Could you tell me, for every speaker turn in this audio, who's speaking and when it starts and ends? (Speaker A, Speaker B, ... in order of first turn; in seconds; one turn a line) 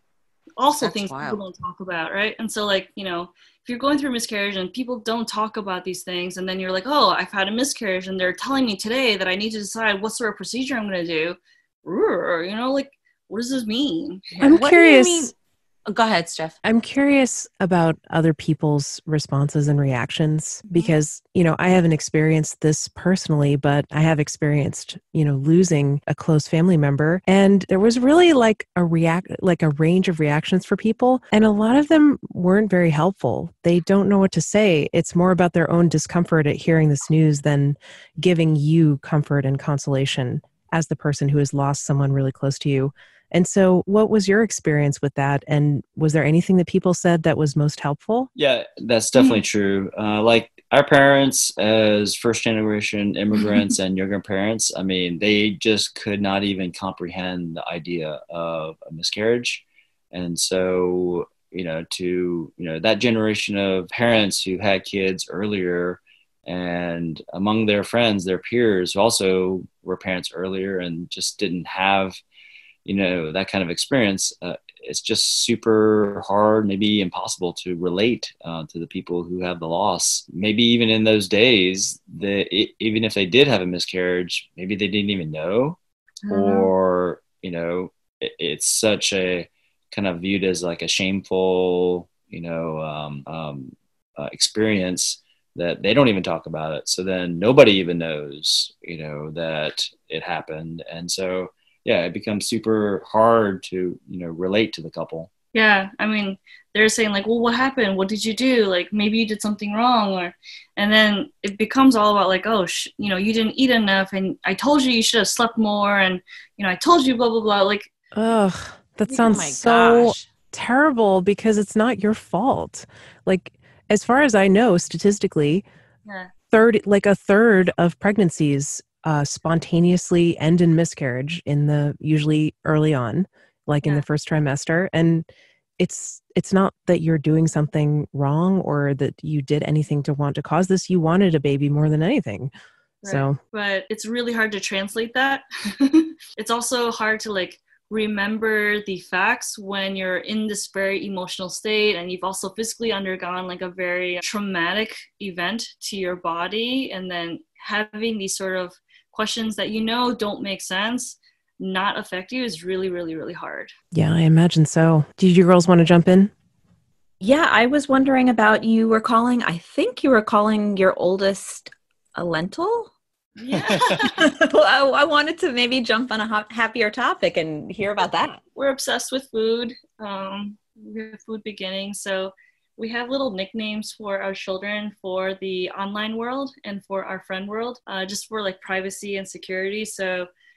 Speaker A: 0.6-14.6
Speaker B: 0.8-1.4
Speaker C: 14.4-15.3
Speaker B: 14.5-15.3
Speaker B: 15.9-16.6
Speaker C: 16.6-48.3
Speaker D: 48.3-72.2
Speaker A: 49.1-49.4
Speaker D: 72.8-85.8
Speaker A: 86.2-86.7
Speaker D: 86.3-105.3
Speaker A: 105.5-117.9
Speaker C: 118.1-125.7
Speaker B: 119.1-120.2
Speaker A: 126.0-126.3
Speaker C: 126.5-135.3
Speaker C: 135.8-142.5
Speaker A: 143.0-163.7
Speaker C: 143.1-143.4
Speaker C: 163.9-166.3
Speaker E: 167.2-172.9
Speaker A: 173.4-174.2
Speaker D: 173.5-174.0
Speaker E: 174.1-178.4
Speaker A: 178.5-190.3